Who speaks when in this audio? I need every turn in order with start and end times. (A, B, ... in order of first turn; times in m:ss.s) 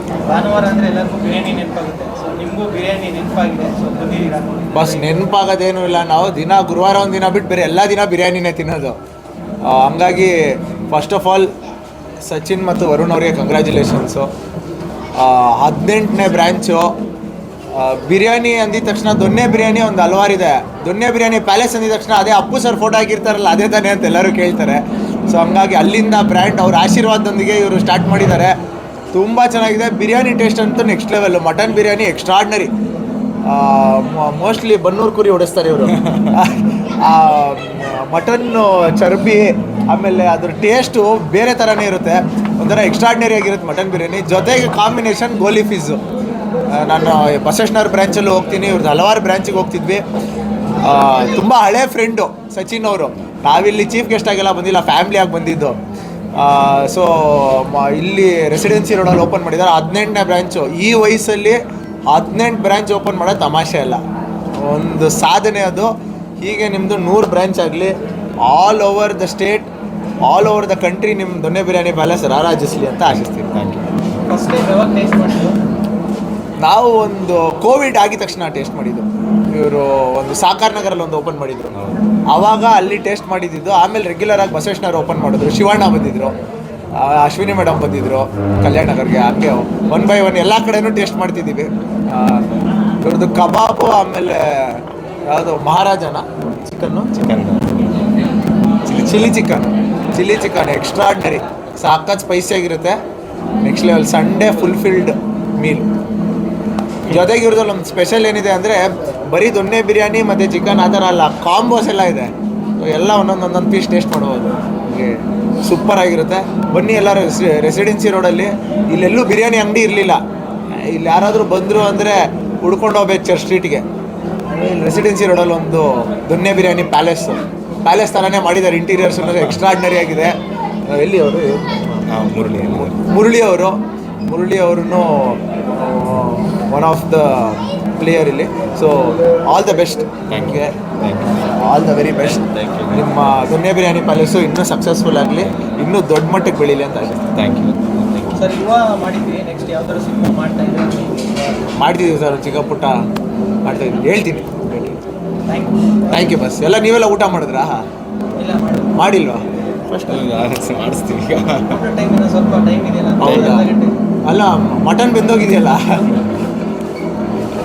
0:00.2-0:05.2 A
0:04.7-0:09.0 B
0:09.6-0:11.5 B
0:12.2-0:14.3 B
0:15.2-0:16.9 B
0:17.7-0:28.5 B
0:29.1-0:32.7 B
0:33.4-0:46.0 B
0:36.0-0:36.3 C
0:46.7-0:50.0 B
0:50.8-0:55.8 B
0:56.4-1:04.0 B
1:04.6-1:09.7 B
1:10.2-1:13.5 B
1:13.5-1:14.0 C
1:14.3-1:15.6 A
1:16.6-1:21.7 B
1:22.3-1:26.3 B
1:26.9-1:32.5 B
1:33.0-1:37.2 B
1:37.2-1:38.1 C
1:38.9-1:43.0 B
1:39.0-1:39.3 C
1:43.6-1:45.9 B
1:47.1-2:00.2 B
2:00.8-2:03.8 B
2:04.5-2:10.4 B
2:09.2-2:09.5 C
2:10.9-2:20.7 B
2:12.1-2:13.0 C
2:20.3-2:21.6 C
2:21.5-2:27.2 B
2:22.1-2:23.4 C
2:27.2-2:28.4 C
2:28.3-2:31.7 A
2:31.8-2:33.0 B
2:33.6-2:35.0 B
2:35.5-2:36.2 A
2:36.1-2:37.8 B
2:38.4-2:39.0 A
2:39.0-2:39.4 B
2:39.9-2:41.8 C
2:41.7-2:44.0 A
2:43.2-2:43.7 B
2:43.2-2:43.6 C
2:44.2-2:45.8 B